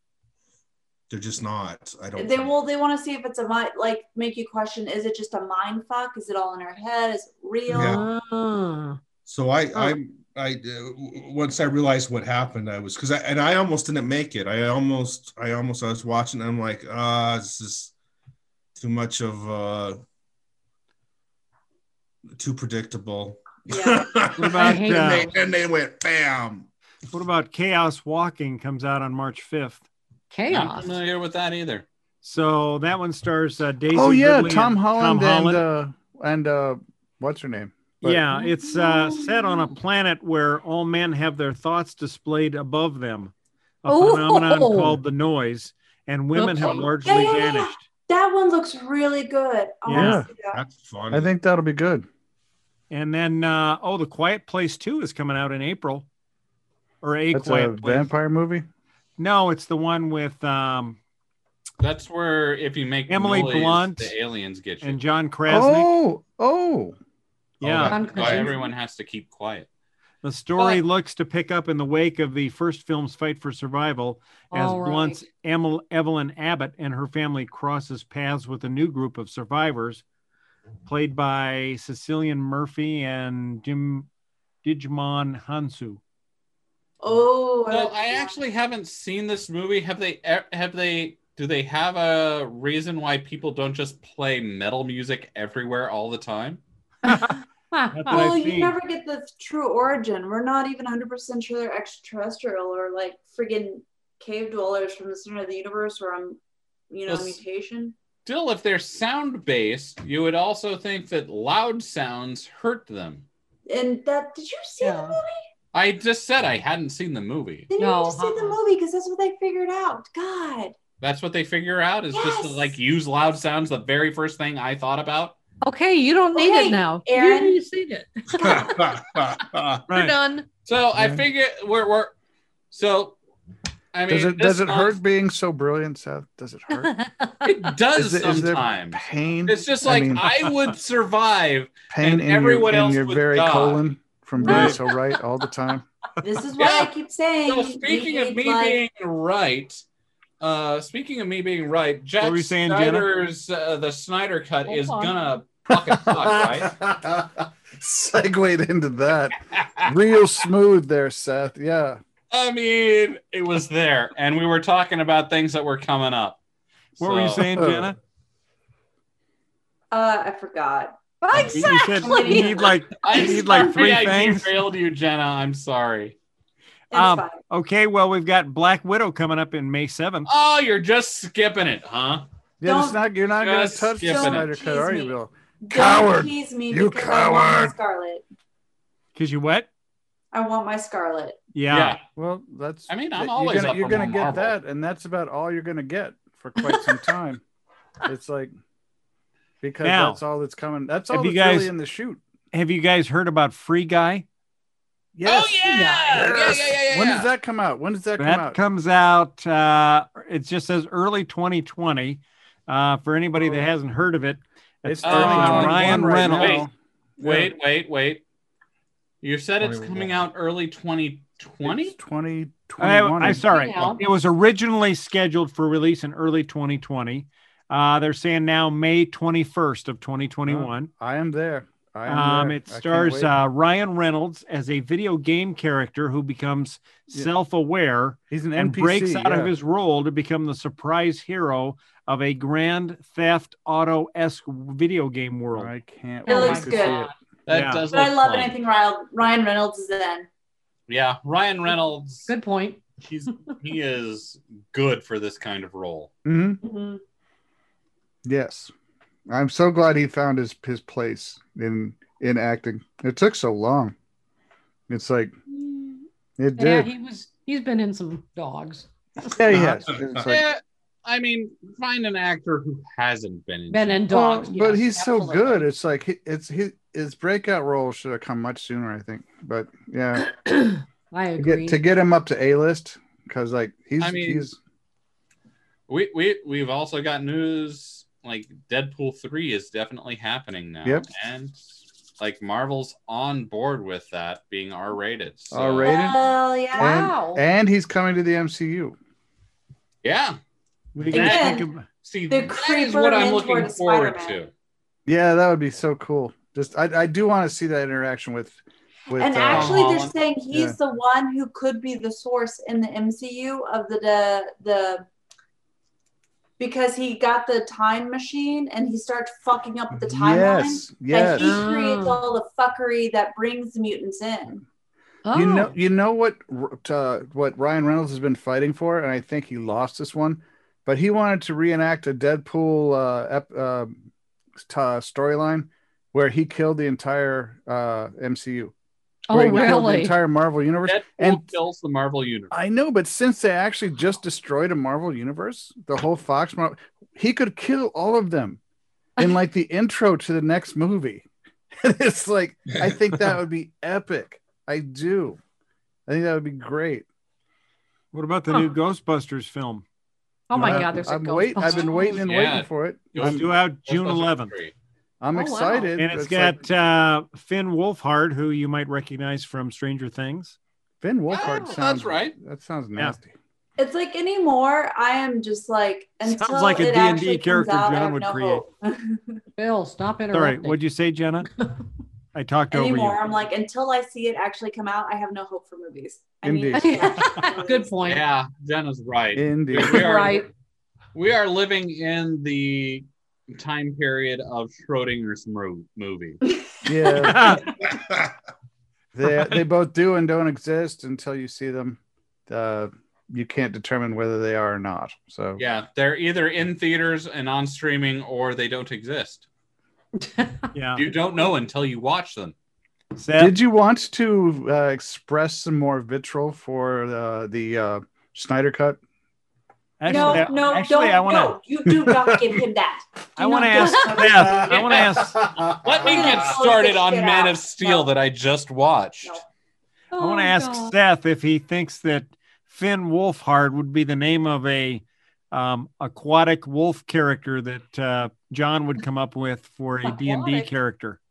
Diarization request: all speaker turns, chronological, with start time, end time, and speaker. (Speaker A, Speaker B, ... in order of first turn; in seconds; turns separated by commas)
Speaker A: 1.1-2.5, Speaker B: 2.2-8.0, Speaker A: 7.7-8.0, Speaker C: 7.7-9.0, Speaker A: 9.2-17.9, Speaker A: 18.8-20.0, Speaker A: 22.4-26.7, Speaker B: 23.7-24.1, Speaker D: 24.4-25.3, Speaker C: 24.6-25.3, Speaker D: 27.1-29.8, Speaker C: 30.3-31.0, Speaker E: 30.5-31.9, Speaker D: 32.2-35.6, Speaker F: 33.9-38.3, Speaker D: 38.0-43.3, Speaker C: 38.3-39.0, Speaker B: 38.9-39.4, Speaker D: 43.8-47.8, Speaker C: 43.9-45.0, Speaker C: 46.3-47.3, Speaker B: 47.0-50.6, Speaker D: 49.9-50.3, Speaker F: 49.9-50.3, Speaker A: 50.5-51.3, Speaker F: 51.1-52.1, Speaker D: 52.9-56.0, Speaker D: 57.0-58.1, Speaker F: 57.3-58.6, Speaker D: 59.2-61.0, Speaker E: 61.8-65.0, Speaker D: 63.1-64.1, Speaker D: 64.8-65.9, Speaker F: 65.5-67.0, Speaker A: 67.6-68.5, Speaker D: 67.6-68.0, Speaker C: 67.9-68.7, Speaker E: 68.0-69.7, Speaker D: 70.2-80.0, Speaker E: 70.6-70.8, Speaker C: 74.5-75.2, Speaker D: 80.8-84.1, Speaker D: 84.6-86.0, Speaker B: 87.0-88.4, Speaker E: 87.7-96.6, Speaker C: 97.0-98.3, Speaker D: 97.9-98.8, Speaker B: 98.1-106.4, Speaker B: 106.9-107.9, Speaker E: 107.1-107.4, Speaker E: 108.2-113.2, Speaker B: 113.7-115.4, Speaker C: 114.8-115.2, Speaker E: 115.7-117.7, Speaker B: 117.7-120.7, Speaker C: 117.8-118.6, Speaker E: 121.0-125.3, Speaker B: 122.1-122.7, Speaker C: 125.6-128.8, Speaker B: 126.3-127.6, Speaker A: 128.4-129.8, Speaker D: 129.9-130.1, Speaker C: 129.9-130.5, Speaker E: 130.7-132.1, Speaker F: 130.9-131.2, Speaker E: 132.7-133.2, Speaker E: 133.9-135.0, Speaker F: 134.1-136.9, Speaker C: 136.7-137.7, Speaker E: 137.4-144.8, Speaker F: 137.9-140.3, Speaker F: 141.9-145.8, Speaker C: 144.4-144.8, Speaker B: 146.2-148.8, Speaker E: 146.6-146.9, Speaker E: 147.4-149.8, Speaker E: 150.4-156.7, Speaker D: 152.2-153.1, Speaker C: 154.6-155.2, Speaker F: 155.7-162.0, Speaker E: 162.3-166.4, Speaker E: 167.0-167.5, Speaker D: 167.0-167.9, Speaker F: 167.5-167.9, Speaker B: 169.9-173.7, Speaker C: 171.3-172.8, Speaker D: 171.3-174.5, Speaker E: 173.0-176.2, Speaker B: 176.9-177.4, Speaker D: 176.9-180.3, Speaker E: 180.3-182.2, Speaker F: 182.6-187.8, Speaker B: 182.6-183.0, Speaker E: 183.4-184.5, Speaker B: 184.0-188.2, Speaker D: 189.1-189.7, Speaker B: 190.3-191.3, Speaker D: 191.5-192.0, Speaker E: 191.7-192.0, Speaker F: 192.2-197.4, Speaker E: 192.9-194.5, Speaker C: 196.6-197.0, Speaker F: 198.1-198.5, Speaker F: 199.6-202.2, Speaker D: 199.8-200.2, Speaker D: 201.1-201.7, Speaker D: 202.5-204.2, Speaker F: 205.1-208.6, Speaker E: 205.2-207.3, Speaker C: 205.6-206.4, Speaker D: 208.2-216.7, Speaker F: 214.8-217.5, Speaker E: 215.0-216.6, Speaker E: 217.2-218.2, Speaker E: 219.2-221.9, Speaker A: 219.6-220.3, Speaker F: 221.6-223.4, Speaker D: 222.8-230.9, Speaker C: 223.2-224.1, Speaker F: 230.5-233.3, Speaker D: 232.1-245.7, Speaker F: 238.3-239.5, Speaker F: 245.5-247.1, Speaker C: 246.2-247.1, Speaker B: 246.3-247.1, Speaker E: 247.5-248.6, Speaker D: 247.5-247.8, Speaker B: 247.9-250.3, Speaker E: 250.9-252.3, Speaker C: 252.2-252.8, Speaker E: 253.0-256.1, Speaker F: 256.2-256.6, Speaker B: 256.6-257.0, Speaker F: 258.2-258.7, Speaker F: 259.3-263.9, Speaker F: 264.9-265.4, Speaker F: 266.4-266.9, Speaker C: 266.6-269.6, Speaker F: 269.2-270.4, Speaker A: 269.9-270.3, Speaker E: 270.2-274.0, Speaker C: 273.7-275.7, Speaker F: 274.1-280.3, Speaker C: 280.2-281.8, Speaker F: 281.4-284.6, Speaker E: 284.0-284.5, Speaker E: 285.9-291.6, Speaker E: 292.2-296.0, Speaker F: 295.5-296.2, Speaker B: 295.8-297.1, Speaker C: 296.7-297.4, Speaker F: 296.8-299.0, Speaker E: 300.0-300.4, Speaker D: 300.9-301.9, Speaker E: 301.1-304.5, Speaker B: 301.1-301.7, Speaker B: 302.3-304.4, Speaker F: 305.1-309.8, Speaker B: 309.1-315.1, Speaker E: 309.5-310.1, Speaker F: 310.5-310.8, Speaker B: 316.6-324.6, Speaker F: 319.9-321.5, Speaker C: 321.3-322.2, Speaker C: 325.2-325.7, Speaker F: 325.3-334.0, Speaker F: 334.6-338.7, Speaker C: 339.3-340.2, Speaker F: 339.3-341.4, Speaker E: 340.9-342.6, Speaker F: 342.5-348.6, Speaker F: 349.2-351.2, Speaker F: 351.8-355.4, Speaker F: 356.1-357.1, Speaker D: 358.1-359.8, Speaker C: 358.5-358.7, Speaker C: 360.5-362.3, Speaker F: 360.5-363.4, Speaker E: 361.7-364.7, Speaker D: 363.2-364.5, Speaker F: 365.2-366.6, Speaker C: 365.3-365.9, Speaker D: 366.0-370.6, Speaker F: 371.0-373.3, Speaker E: 371.3-372.3, Speaker C: 371.4-371.8, Speaker B: 373.8-379.4, Speaker D: 376.2-378.6, Speaker C: 379.6-380.8, Speaker D: 380.3-381.5, Speaker D: 382.3-383.2, Speaker B: 382.7-387.9, Speaker F: 386.4-387.3, Speaker C: 386.7-388.2, Speaker E: 388.0-390.5, Speaker F: 389.3-390.1, Speaker C: 389.8-390.5, Speaker E: 391.1-396.4, Speaker F: 396.8-397.7, Speaker D: 397.2-397.7, Speaker A: 397.9-398.3, Speaker F: 399.1-405.6, Speaker E: 405.6-409.4, Speaker C: 410.2-410.7, Speaker D: 410.7-411.0, Speaker E: 410.9-412.5, Speaker D: 413.2-413.6, Speaker F: 413.4-419.0, Speaker D: 420.0-421.6, Speaker B: 420.1-425.0, Speaker F: 421.9-422.6, Speaker D: 423.4-425.4, Speaker C: 423.7-424.2, Speaker F: 424.4-426.4, Speaker E: 424.6-429.4, Speaker B: 426.0-428.1, Speaker C: 430.1-430.9, Speaker D: 430.2-441.2, Speaker C: 440.0-440.7